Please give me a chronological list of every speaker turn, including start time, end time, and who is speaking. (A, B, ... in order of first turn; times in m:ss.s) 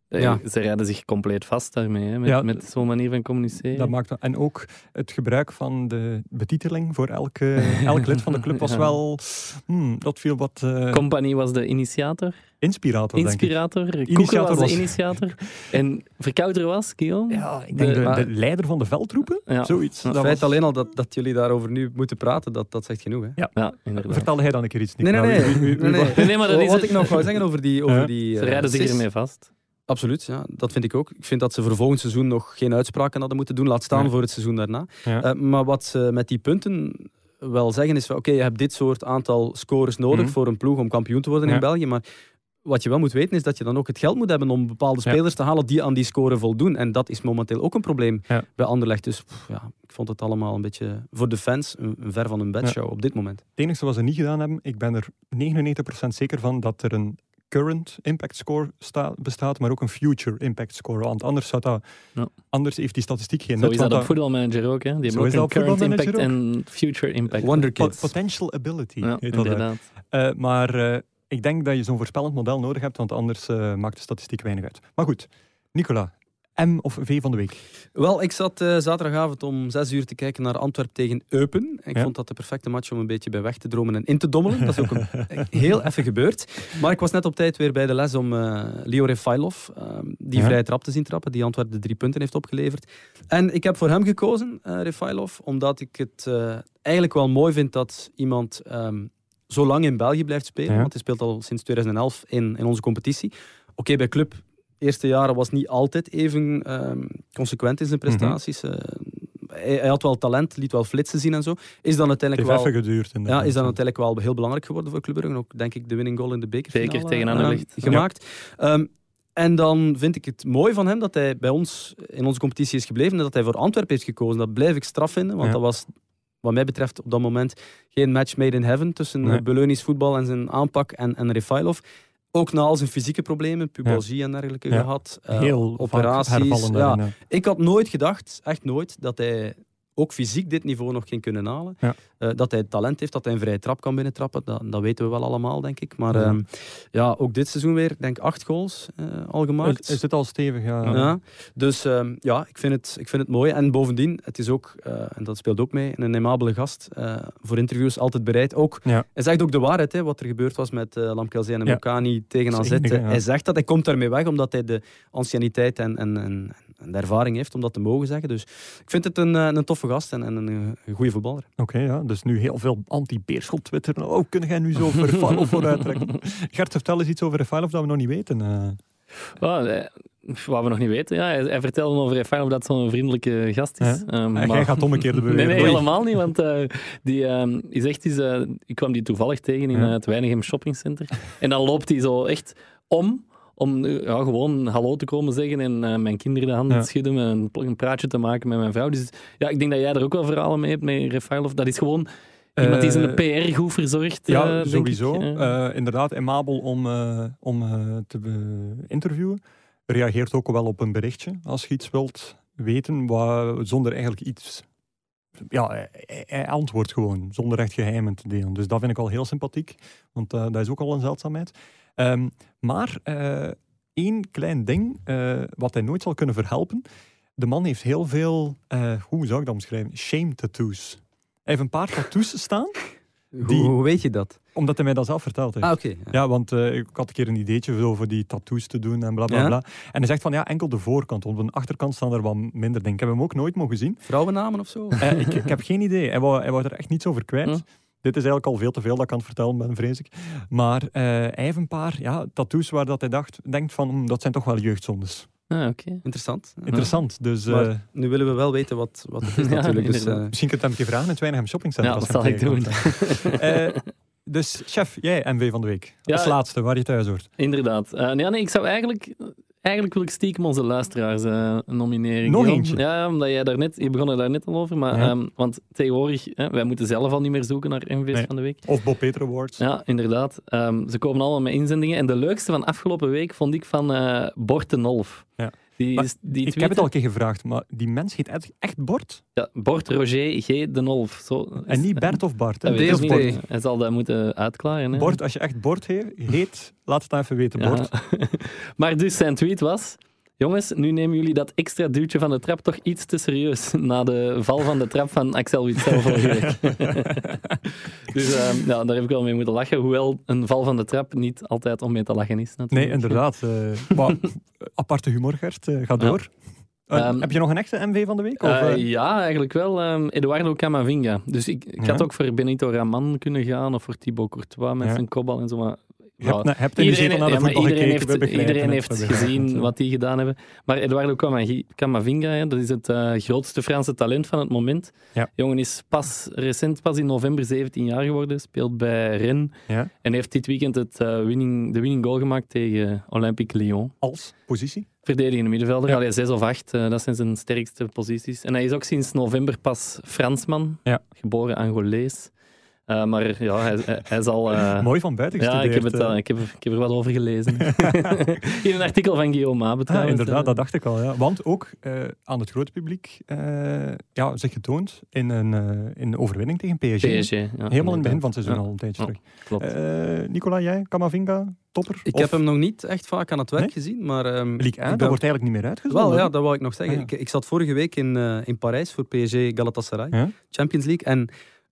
0:00.1-0:03.9 A
0:02.2-0:02.6 B
0:03.7-0:11.0 B
0:07.7-0:08.9 A
0:10.9-0:12.4 A
0:12.6-0:13.5 B
0:13.1-0:18.1 A
0:14.0-0:15.2 B
0:17.3-0:20.4 B
0:18.0-0:18.3 C
0:19.5-0:20.2 A
0:20.1-0:23.4 C
0:23.4-0:26.3 B
0:23.6-0:24.3 A
0:25.0-0:29.0 C
0:25.9-0:27.3 A
0:28.4-0:29.5 A
0:29.9-0:42.0 C
0:42.6-0:53.4 C
0:53.6-1:01.8 B
1:02.5-1:04.1 B
1:03.6-1:07.7 A
1:05.1-1:06.3 B
1:07.4-1:08.1 C
1:07.4-1:17.6 B
1:09.0-1:09.8 A
1:17.9-1:52.7 C
1:48.1-1:48.4 B
1:52.4-1:53.8 B
1:53.3-2:05.9 C
1:56.7-1:58.0 A
2:06.4-2:11.8 C
2:12.3-2:30.0 C
2:14.7-2:17.1 B
2:29.6-2:31.1 B
2:30.9-2:51.5 C
2:42.5-2:43.2 B
2:51.6-2:58.8 B
2:59.4-3:25.5 A
3:03.8-3:05.9 B
3:22.6-3:23.2 B
3:24.3-3:34.6 B
3:35.5-3:46.8 B
3:47.4-3:52.8 B
3:53.3-3:54.4 C
3:53.4-3:53.8 B
3:54.5-4:04.0 B
3:55.6-3:56.1 C
3:59.3-3:59.5 C
4:04.1-4:05.0 C
4:05.0-4:15.3 B
4:15.5-4:16.0 A
4:16.0-4:16.9 C
4:16.7-4:17.8 B
4:17.5-4:20.3 C
4:19.3-4:20.3 A
4:20.3-4:27.3 B
4:21.8-4:23.9 A
4:26.1-4:26.4 A
4:27.4-4:38.6 A
4:32.2-4:32.8 B
4:38.1-4:39.6 B
4:39.6-4:45.3 A
4:45.4-4:49.2 B
4:45.8-4:46.9 A
4:49.4-4:55.2 A
4:51.7-4:53.3 B
4:52.7-4:53.4 C
4:54.9-4:57.9 B
4:57.6-5:07.4 A
5:06.1-5:07.6 B
5:08.1-5:13.2 A
5:12.7-5:16.3 B
5:16.9-5:18.8 B
5:16.9-5:17.3 A
5:18.4-5:43.9 A
5:21.8-5:22.1 B
5:26.2-5:29.7 B
5:44.0-5:44.9 B
5:45.0-5:52.3 A
5:52.9-6:00.6 A
5:54.7-5:56.2 B
5:57.6-5:58.2 B
5:59.9-6:12.4 B
6:07.0-6:09.7 A
6:12.1-6:15.2 C
6:14.6-6:16.3 B
6:15.9-6:21.3 C